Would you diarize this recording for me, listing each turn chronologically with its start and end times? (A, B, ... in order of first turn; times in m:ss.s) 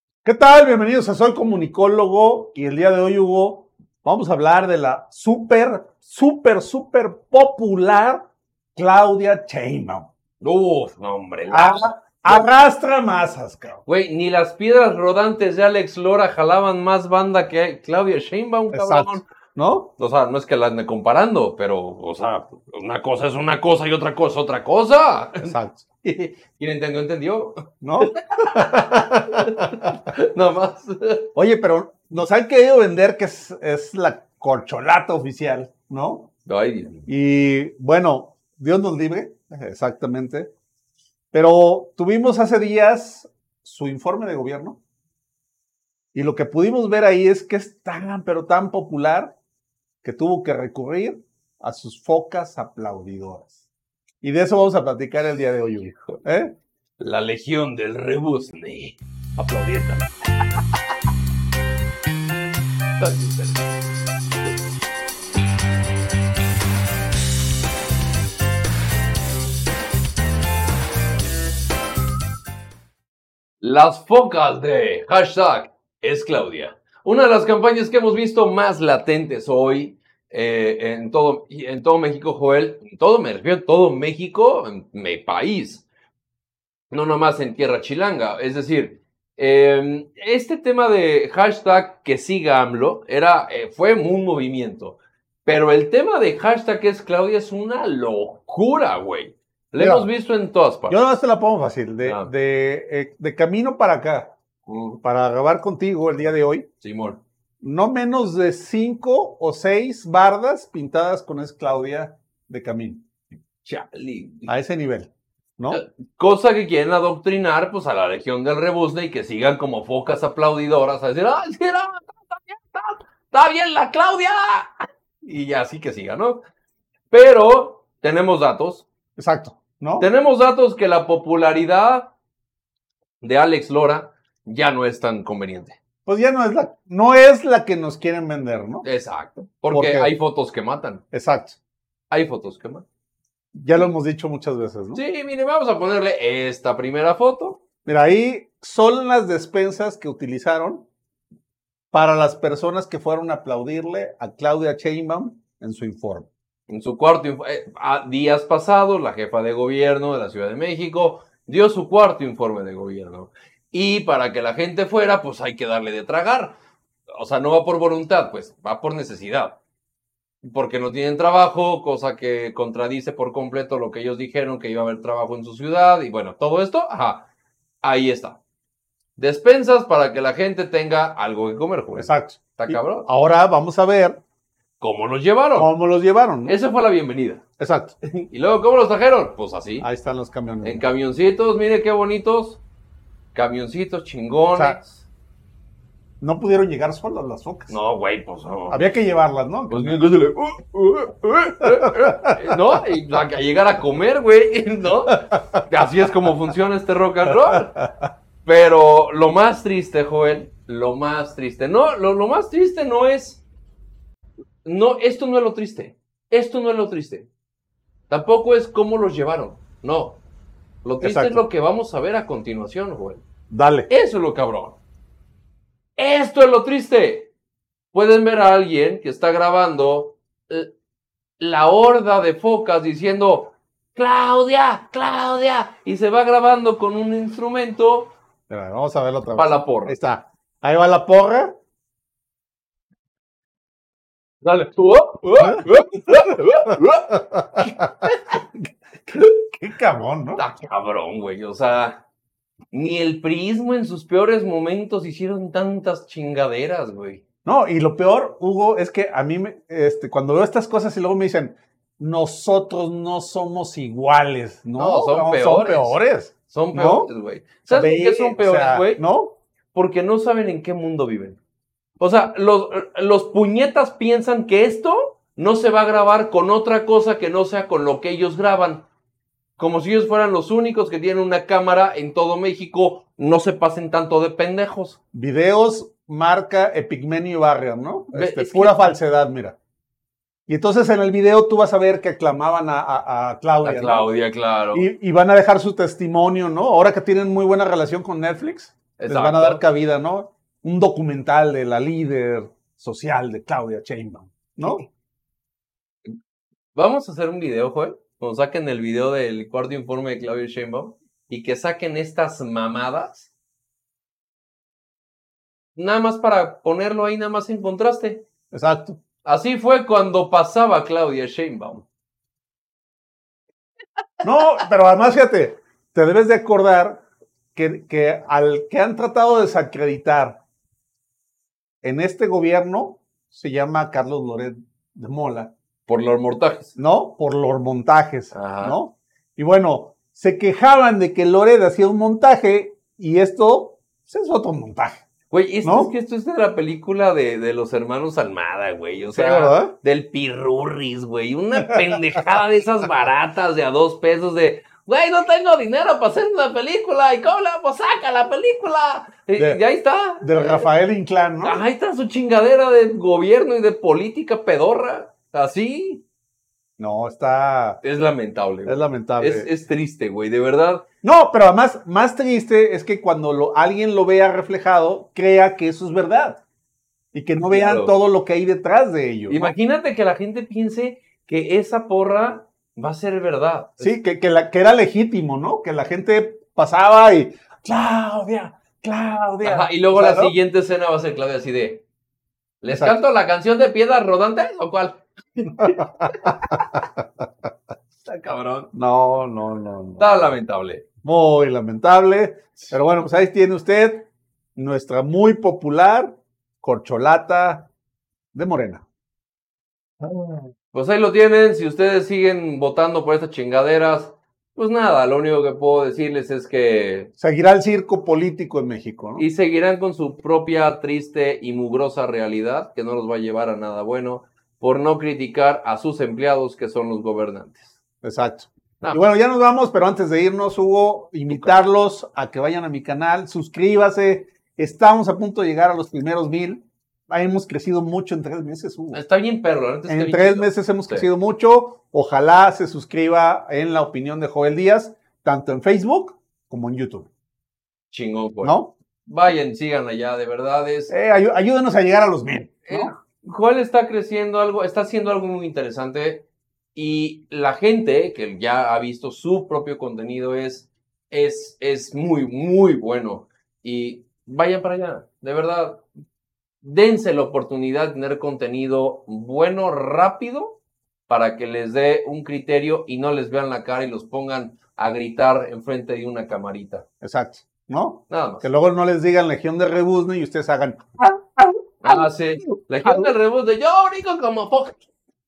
0:00.2-0:08.2 A
0:08.8-0:10.1 A
0:10.4-0:12.4 B
0:11.5-0:13.8 A
0:13.9-0:19.2 B
0:18.7-0:19.9 A
0:20.0-0:25.5 B
0:25.4-0:26.2 A
0:26.1-0:31.3 B
0:27.8-0:30.0 A
0:31.4-0:36.3 A
0:36.5-0:37.1 B
0:37.1-0:40.5 A
0:41.3-0:44.8 A
0:46.1-0:49.4 A
0:50.0-0:53.6 A
0:54.2-0:56.6 A
0:57.0-1:00.1 B
1:03.0-1:03.6 B
1:13.6-1:25.9 B
1:26.9-1:41.0 B
1:39.8-1:40.1 A
1:40.9-1:44.4 A
1:42.0-1:42.3 B
1:44.7-1:45.0 B
1:45.0-1:46.7 A
1:46.8-1:47.2 B
1:47.6-1:53.0 A
1:53.6-1:54.5 B
1:54.5-1:55.8 A
1:55.7-2:06.4 B
2:07.1-2:08.9 B
2:09.2-2:10.1 A
2:10.0-2:12.1 B
2:13.2-2:15.8 B
2:16.1-2:18.9 A
2:18.8-2:21.0 B
2:19.7-2:20.1 A
2:21.1-2:21.6 A
2:22.1-2:22.8 B
2:23.5-2:25.0 A
2:24.9-2:27.6 B
2:27.9-2:30.9 A
2:31.9-2:36.3 A
2:36.7-2:46.6 B
2:47.2-2:49.6 B
2:50.4-2:57.3 B
2:57.8-2:58.4 B
2:59.2-3:03.1 B
3:02.0-3:04.2 A
3:04.8-3:05.7 B
3:05.6-3:06.6 A
3:06.5-3:07.4 B
3:07.6-3:08.0 A
3:08.1-3:09.9 B
3:09.8-3:10.8 A
3:10.6-3:12.6 B
3:13.3-3:15.1 B
3:16.2-3:17.8 A
3:17.7-3:18.9 B
3:18.7-3:20.0 A
3:19.7-3:27.9 B
3:21.8-3:22.4 A
3:27.8-3:28.0 A
3:28.4-3:33.4 B
3:34.6-3:37.3 B
3:38.1-3:40.2 B
3:40.8-3:43.2 B
3:41.0-3:41.4 A
3:43.5-3:43.9 A
3:43.9-3:44.8 B
3:46.0-3:47.3 B
3:47.9-3:50.7 B
3:51.4-3:58.1 B
3:58.5-4:01.6 A
3:59.3-4:00.0 B
4:04.4-4:08.4 B
4:05.4-4:05.7 A
4:06.7-4:07.9 A
4:08.5-4:10.4 A
4:10.4-4:12.0 B
4:12.7-4:17.2 B
4:17.4-4:27.1 A
4:24.8-4:26.0 B
4:26.5-4:29.0 B
4:27.7-4:29.4 A
4:29.7-4:31.4 B
4:32.0-4:38.9 B
4:39.6-4:45.0 B
4:45.1-4:49.6 A
4:48.1-4:48.9 B
4:50.5-4:54.1 A
4:53.6-4:54.9 B
4:54.7-5:04.9 A
4:59.0-4:59.6 B
5:06.8-5:13.3 B
5:15.8-5:18.2 B
5:18.5-5:19.0 A
5:19.2-5:21.9 B
5:24.2-5:27.0 A
5:27.6-5:30.4 A
5:31.8-5:35.5 A
5:35.9-5:36.8 B
5:36.8-5:45.1 A
5:38.3-5:38.8 B
5:45.3-6:00.7 B
5:45.6-5:45.9 A
5:49.1-5:49.8 A
6:00.2-6:01.6 A
6:01.4-6:06.0 B
6:06.8-6:07.8 A
6:07.8-6:10.8 B
6:08.6-6:09.5 A
6:11.0-6:16.4 A
6:17.1-6:19.5 A
6:17.4-6:18.0 B
6:19.3-6:23.9 B
6:23.8-6:30.3 A
6:29.4-6:31.8 B
6:32.6-6:36.8 B
6:32.7-6:33.0 A
6:35.7-6:36.8 A
6:38.0-6:38.7 B
6:38.7-6:40.4 A
6:40.0-6:40.8 B
6:41.0-6:47.7 A
6:48.3-6:48.8 A
6:50.0-6:57.1 B
6:57.2-6:59.3 A
6:59.2-7:07.8 B
7:08.0-7:19.0 A
7:18.9-7:21.1 B
7:19.9-7:27.1 A
7:27.9-7:30.9 B
7:28.4-7:28.7 A
7:30.9-7:33.0 A
7:32.7-7:45.8 B
7:46.6-7:56.8 B
7:57.0-8:02.1 A
7:58.1-7:58.5 B
8:01.8-8:04.9 B
8:02.7-8:03.1 A